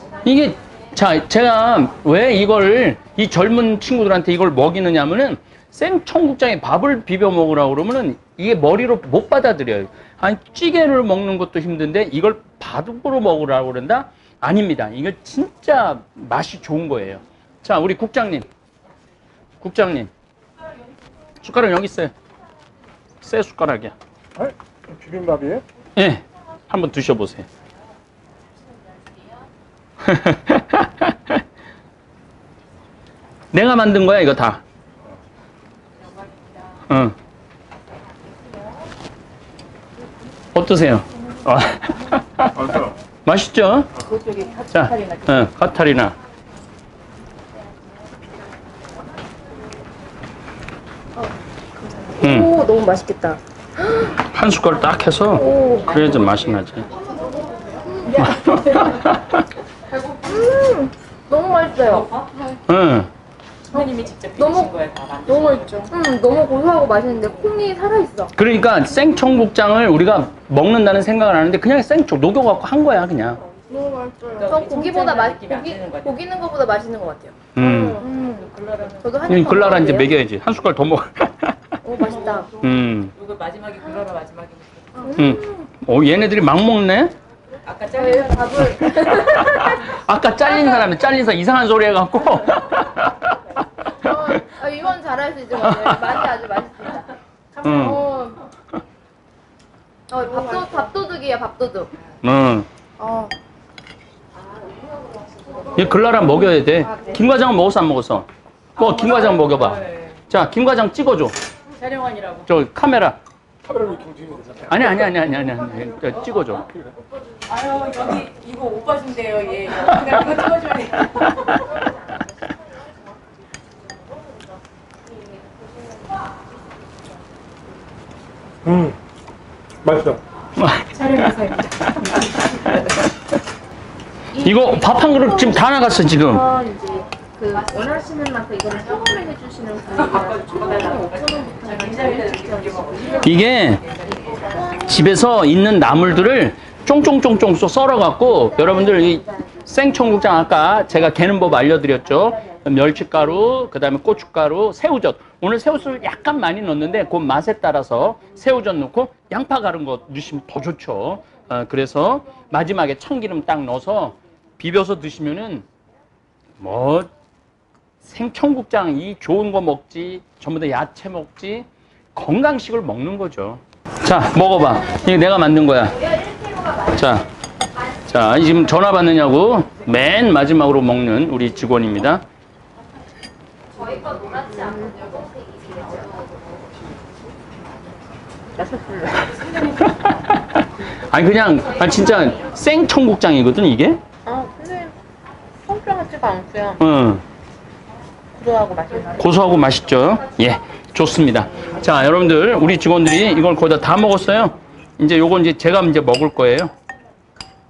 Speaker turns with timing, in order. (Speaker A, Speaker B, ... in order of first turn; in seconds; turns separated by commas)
Speaker A: 0.2-18.5, Speaker A: 19.6-20.1, Speaker A: 21.4-22.1, Speaker A: 23.2-23.9, Speaker B: 24.4-25.6, Speaker A: 25.9-27.5, Speaker A: 30.0-31.4, Speaker A: 33.5-34.6, Speaker C: 36.1-36.6, Speaker A: 36.9-37.1, Speaker A: 40.5-43.9, Speaker C: 44.1-45.2, Speaker A: 44.7-46.1, Speaker D: 51.9-54.1, Speaker A: 52.2-52.5, Speaker A: 54.3-56.9, Speaker D: 55.3-56.0, Speaker C: 55.8-57.8, Speaker D: 56.9-59.1, Speaker A: 58.2-59.3, Speaker D: 59.9-62.1, Speaker C: 61.8-62.3, Speaker A: 62.7-63.1, Speaker C: 63.7-65.9, Speaker D: 63.7-64.7, Speaker D: 65.3-68.3, Speaker A: 68.3-73.4, Speaker D: 73.7-80.2, Speaker C: 74.3-76.2, Speaker A: 77.5-78.0, Speaker C: 77.8-79.5, Speaker A: 79.3-81.6, Speaker D: 81.8-82.5, Speaker C: 81.9-85.1, Speaker A: 82.6-83.1, Speaker D: 85.0-85.7, Speaker A: 85.2-87.1, Speaker C: 87.6-88.9, Speaker D: 87.9-90.8, Speaker A: 89.6-93.2, Speaker D: 94.0-97.1, Speaker A: 95.7-96.0, Speaker A: 97.6-98.0, Speaker D: 97.6-98.4, Speaker D: 100.1-101.9, Speaker A: 102.2-102.7, Speaker D: 103.0-103.3, Speaker D: 105.1-105.6, Speaker A: 105.7-111.3, Speaker D: 106.6-107.2, Speaker C: 108.8-110.2, Speaker C: 111.8-112.5, Speaker A: 112.5-113.2, Speaker B: 113.6-115.0, Speaker A: 114.7-116.6, Speaker C: 117.5-121.7, Speaker B: 128.7-128.9, Speaker B: 129.8-130.2, Speaker A: 130.6-131.4, Speaker D: 131.0-131.7, Speaker A: 132.0-132.7, Speaker D: 134.3-143.1, Speaker A: 134.4-136.4, Speaker C: 139.9-144.7, Speaker A: 143.2-143.8, Speaker D: 144.3-144.9, Speaker A: 144.8-165.6, Speaker A: 166.6-167.1, Speaker A: 168.0-176.1, Speaker A: 176.8-177.3, Speaker A: 178.0-182.2, Speaker D: 184.1-186.2, Speaker D: 188.6-189.5, Speaker A: 190.0-190.6, Speaker A: 191.1-194.0, Speaker D: 194.2-194.9, Speaker D: 195.6-196.8, Speaker A: 196.8-197.2, Speaker D: 198.3-199.2, Speaker A: 199.2-206.7